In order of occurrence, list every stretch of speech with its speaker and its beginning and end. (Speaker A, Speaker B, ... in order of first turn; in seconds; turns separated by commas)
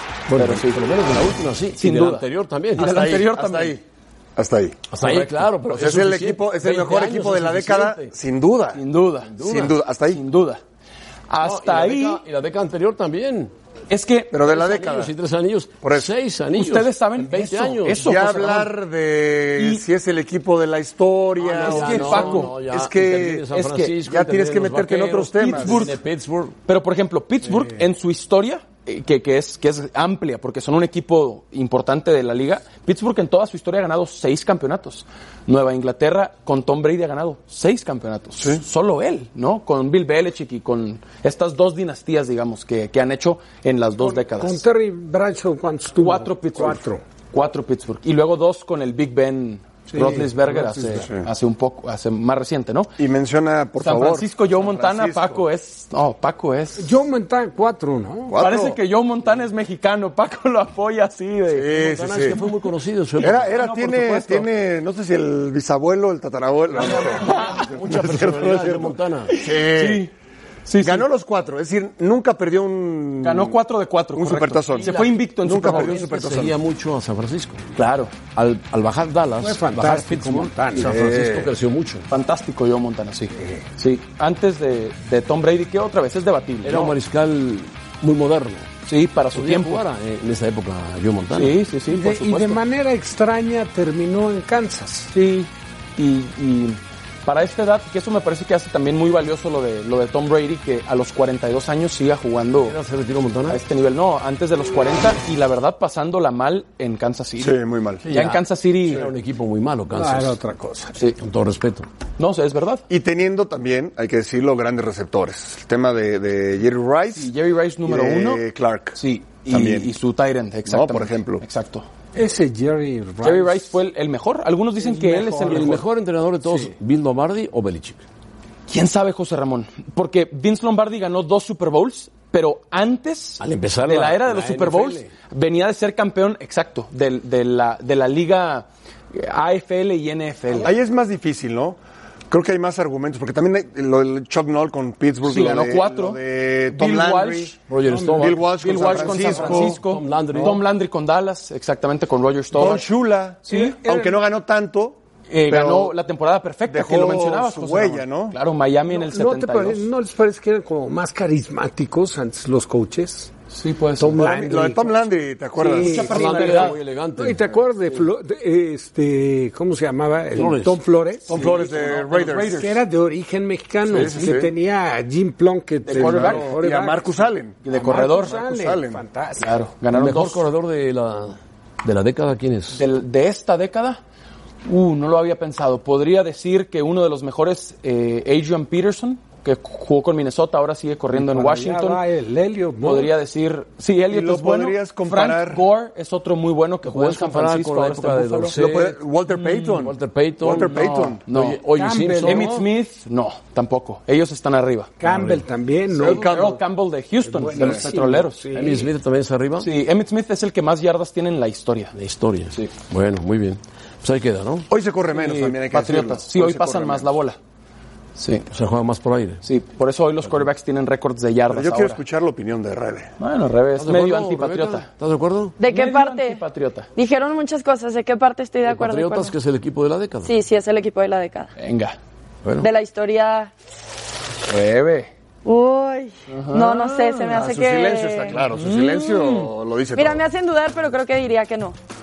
Speaker A: 0.3-3.0, Speaker B: 0.3-0.8, Speaker B: 1.8-3.8, Speaker C: 2.8-3.8, Speaker C: 4.4-8.8, Speaker A: 4.9-8.1, Speaker B: 8.7-9.3, Speaker A: 9.3-9.8, Speaker C: 9.4-10.2, Speaker B: 10.1-10.6, Speaker B: 11.3-12.2, Speaker A: 11.4-13.5, Speaker B: 13.9-14.3, Speaker C: 14.3-15.1, Speaker A: 14.4-18.2, Speaker C: 15.8-16.1, Speaker B: 16.5-18.7, Speaker C: 18.0-23.4, Speaker B: 19.6-19.8, Speaker A: 21.4-26.6, Speaker B: 21.5-22.6, Speaker B: 23.5-23.9, Speaker C: 24.0-25.9, Speaker B: 25.2-26.0, Speaker B: 26.6-44.6, Speaker D: 44.0-47.0, Speaker B: 46.0-52.9, Speaker D: 49.9-51.0, Speaker C: 50.9-51.2, Speaker C: 53.0-55.5, Speaker B: 53.8-56.9, Speaker D: 56.8-58.3, Speaker C: 58.3-58.8, Speaker B: 58.4-61.7, Speaker C: 61.5-62.4, Speaker A: 61.7-63.6, Speaker C: 63.2-70.1, Speaker B: 63.5-64.5, Speaker B: 66.8-67.7, Speaker A: 67.4-69.3, Speaker B: 69.3-70.1, Speaker B: 70.7-71.0, Speaker C: 70.8-73.6, Speaker B: 73.2-76.0, Speaker C: 74.1-76.6, Speaker A: 74.8-77.6, Speaker B: 77.7-78.1, Speaker A: 78.3-82.1, Speaker D: 79.4-80.9, Speaker C: 80.8-81.5, Speaker B: 82.1-87.0, Speaker D: 83.4-83.6, Speaker A: 86.6-88.7, Speaker B: 88.8-89.8, Speaker A: 89.3-91.6, Speaker B: 91.3-92.6, Speaker D: 91.9-95.2, Speaker B: 95.1-102.8, Speaker A: 102.5-103.6, Speaker B: 103.5-109.0, Speaker C: 107.4-108.0, Speaker A: 108.0-110.4, Speaker D: 109.9-111.0, Speaker A: 111.2-111.9, Speaker B: 112.2-112.8, Speaker C: 112.9-117.3, Speaker B: 117.1-118.4, Speaker C: 117.8-119.9, Speaker B: 118.9-121.8, Speaker C: 120.7-121.4, Speaker D: 122.1-123.7, Speaker B: 123.2-125.8, Speaker D: 124.8-125.8, Speaker A: 125.4-128.0, Speaker B: 128.7-140.7, Speaker A: 133.4-135.1, Speaker C: 140.6-141.8, Speaker C: 142.3-147.6, Speaker B: 145.2-146.2, Speaker B: 146.7-147.5, Speaker A: 147.7-150.6, Speaker D: 147.8-149.7, Speaker C: 148.2-149.8, Speaker B: 148.5-152.9, Speaker C: 152.5-155.9, Speaker B: 153.4-153.8, Speaker D: 153.5-154.2, Speaker B: 155.3-159.9, Speaker C: 156.7-158.4, Speaker D: 158.9-163.3, Speaker B: 163.5-164.2, Speaker D: 163.9-165.0, Speaker C: 164.2-166.6, Speaker D: 165.6-171.5, Speaker B: 165.7-166.8, Speaker A: 166.0-167.6, Speaker A: 170.3-170.8, Speaker C: 171.3-172.7, Speaker B: 171.3-172.8, Speaker D: 172.5-179.7, Speaker C: 173.9-174.5, Speaker B: 175.8-176.5, Speaker C: 175.9-179.0, Speaker B: 177.6-178.3, Speaker B: 179.4-180.4, Speaker A: 179.9-182.8, Speaker B: 182.7-184.0, Speaker B: 184.6-192.0, Speaker D: 191.1-193.1, Speaker B: 192.8-198.6, Speaker C: 194.1-195.6, Speaker A: 196.8-199.0, Speaker C: 198.5-201.2, Speaker B: 199.3-199.8, Speaker A: 199.6-202.5, Speaker B: 200.8-201.6, Speaker D: 201.7-202.7, Speaker B: 202.2-204.9, Speaker D: 205.0-206.3, Speaker A: 205.0-205.4, Speaker C: 205.9-206.6, Speaker B: 206.0-208.5, Speaker D: 207.2-208.9, Speaker A: 208.5-209.7, Speaker B: 209.6-211.9, Speaker A: 211.9-214.7, Speaker C: 214.7-217.1, Speaker B: 215.1-217.4, Speaker B: 218.2-218.5, Speaker A: 218.5-219.4, Speaker B: 219.4-222.0, Speaker C: 221.5-223.1, Speaker B: 223.2-224.9, Speaker A: 223.8-225.6, Speaker E: 225.6-226.4, Speaker B: 225.6-226.9, Speaker E: 226.9-229.3, Speaker A: 228.7-230.3, Speaker E: 230.2-231.5, Speaker B: 231.6-231.9, Speaker A: 232.4-232.7, Speaker E: 232.6-233.5, Speaker B: 234.5-235.1, Speaker E: 235.4-238.4, Speaker B: 236.3-237.5, Speaker C: 237.3-240.2, Speaker B: 238.5-239.5, Speaker E: 239.9-241.7